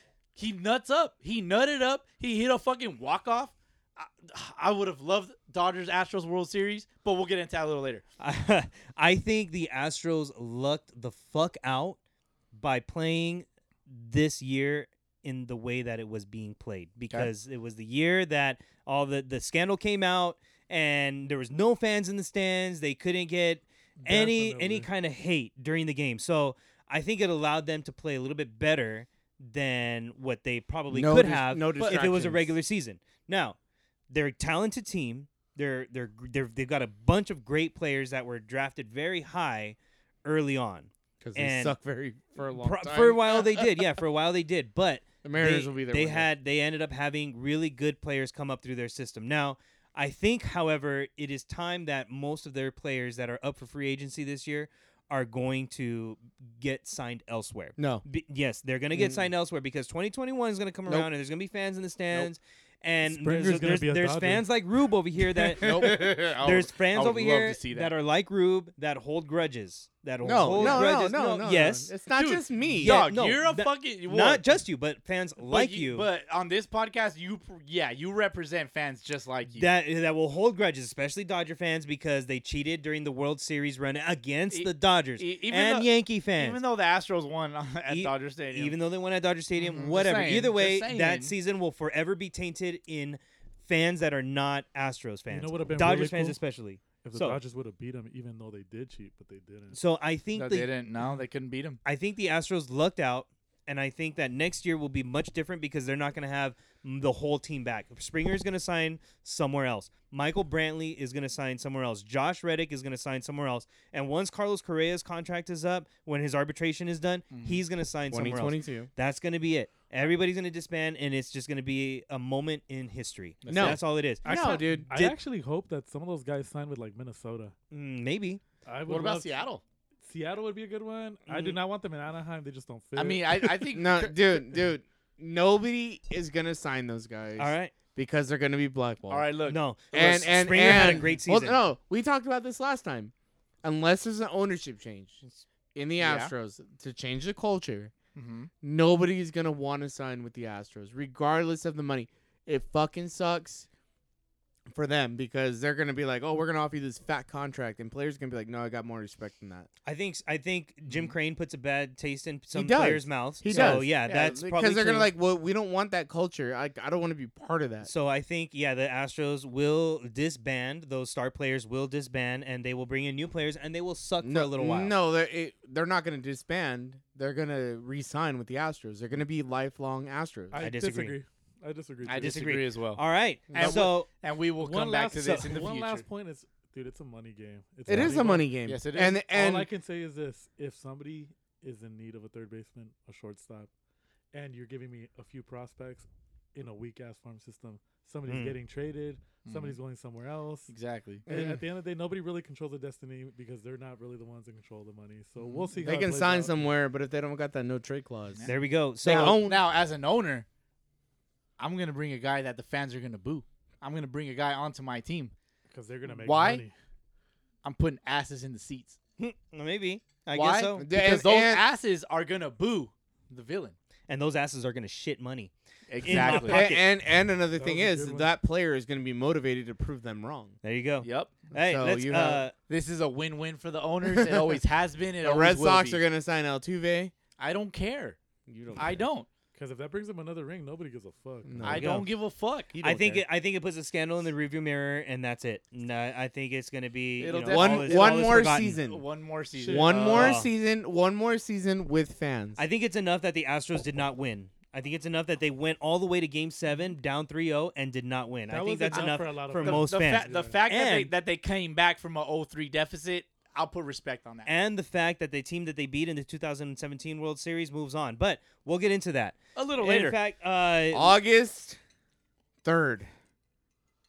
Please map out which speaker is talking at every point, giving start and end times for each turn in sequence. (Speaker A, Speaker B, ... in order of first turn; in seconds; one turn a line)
Speaker A: 0.3-8.0
Speaker B: 8.2-12.0
Speaker B: 12.5-33.6
Speaker C: 24.0-24.9
Speaker D: 30.9-32.5
Speaker A: 31.8-32.1
Speaker B: 34.1-41.8
Speaker D: 41.2-43.7
Speaker B: 42.5-71.9
Speaker D: 45.2-46.3
Speaker D: 57.8-58.0
Speaker D: 58.9-59.3
Speaker C: 63.0-64.5
Speaker A: 65.6-67.9
Speaker D: 65.6-66.1
Speaker D: 70.2-73.0
Speaker A: 70.5-70.9
Speaker A: 72.1-74.4
Speaker B: 72.7-76.1
Speaker A: 75.4-79.7
Speaker B: 79.5-86.6
Speaker A: 84.5-88.8
Speaker B: 87.9-97.4
Speaker A: 89.5-91.3
Speaker C: 95.3-96.4
Speaker C: 97.0-99.8
Speaker B: 99.7-100.7
Speaker A: 100.3-101.8
Speaker B: 101.8-125.2
Speaker A: 117.3-117.6
Speaker D: 118.1-118.9
Speaker A: 123.4-123.8
Speaker D: 123.5-124.9
Speaker C: 124.2-127.5
Speaker B: 127.7-128.4
Speaker C: 128.7-129.4
Speaker A: 128.9-129.6
Speaker C: 130.0-133.7
Speaker B: 131.3-131.6
Speaker A: 132.9-134.2
Speaker D: 133.7-139.3
Speaker B: 137.4-137.7
Speaker A: 139.1-141.1
Speaker B: 139.5-141.6
Speaker D: 139.9-143.1
Speaker D: 143.6-145.2
Speaker D: 145.7-147.9
Speaker A: 146.0-146.3
Speaker A: 148.1-148.5
Speaker D: 148.6-153.7
Speaker D: 154.7-159.7
Speaker B: 159.8-165.1
Speaker D: 162.5-167.9
Speaker A: 163.5-164.5
Speaker B: 167.8-174.9
Speaker D: 174.2-180.6
Speaker C: 180.5-182.4
Speaker B: 180.6-181.2
Speaker A: 182.0-186.0
Speaker B: 182.1-184.1
Speaker D: 183.5-183.8
Speaker C: 184.6-193.7
Speaker D: 187.9-189.7
Speaker A: 188.6-189.2
Speaker C: 194.3-200.7
Speaker B: 198.3-198.6
Speaker A: 199.4-199.8
Speaker A: 200.7-201.3
Speaker C: 201.3-206.6
Speaker D: 201.3-201.6
Speaker A: 205.4-205.7
Speaker D: 205.8-208.4
Speaker A: 208.3-210.4
Speaker B: 208.5-209.4
Speaker D: 209.0-209.7
Speaker A: 211.6-215.3
Speaker C: 215.7-216.7
Speaker A: 216.1-216.6
Speaker A: 217.6-219.0
Speaker B: 219.2-220.8
Speaker A: 220.3-223.7
Speaker D: 220.8-221.6
Speaker B: 224.1-225.5
Speaker A: 225.9-226.7
Speaker B: 226.0-226.8
Speaker D: 226.1-230.5
Speaker C: 227.6-228.3
Speaker B: 230.6-232.5
Speaker A: 231.0-231.3
Speaker D: 231.5-232.4
Speaker A: 232.7-236.0
Speaker D: 234.0-234.5
Speaker D: 235.2-237.1
Speaker A: 237.4-238.2
Speaker D: 238.5-239.0
Speaker A: 238.8-239.3
Speaker C: 239.5-241.8
Speaker D: 241.4-242.0
Speaker B: 241.6-242.1
Speaker A: 241.6-243.2
Speaker B: 242.7-248.8
Speaker A: 247.2-250.3
Speaker D: 247.5-249.0
Speaker C: 249.6-250.1
Speaker D: 249.7-252.6
Speaker B: 250.1-250.5
Speaker B: 252.6-261.1
Speaker C: 258.5-260.6
Speaker A: 258.9-264.5
Speaker B: 264.5-271.1
Speaker A: 269.6-270.2
Speaker D: 270.9-271.8
Speaker D: 272.6-273.1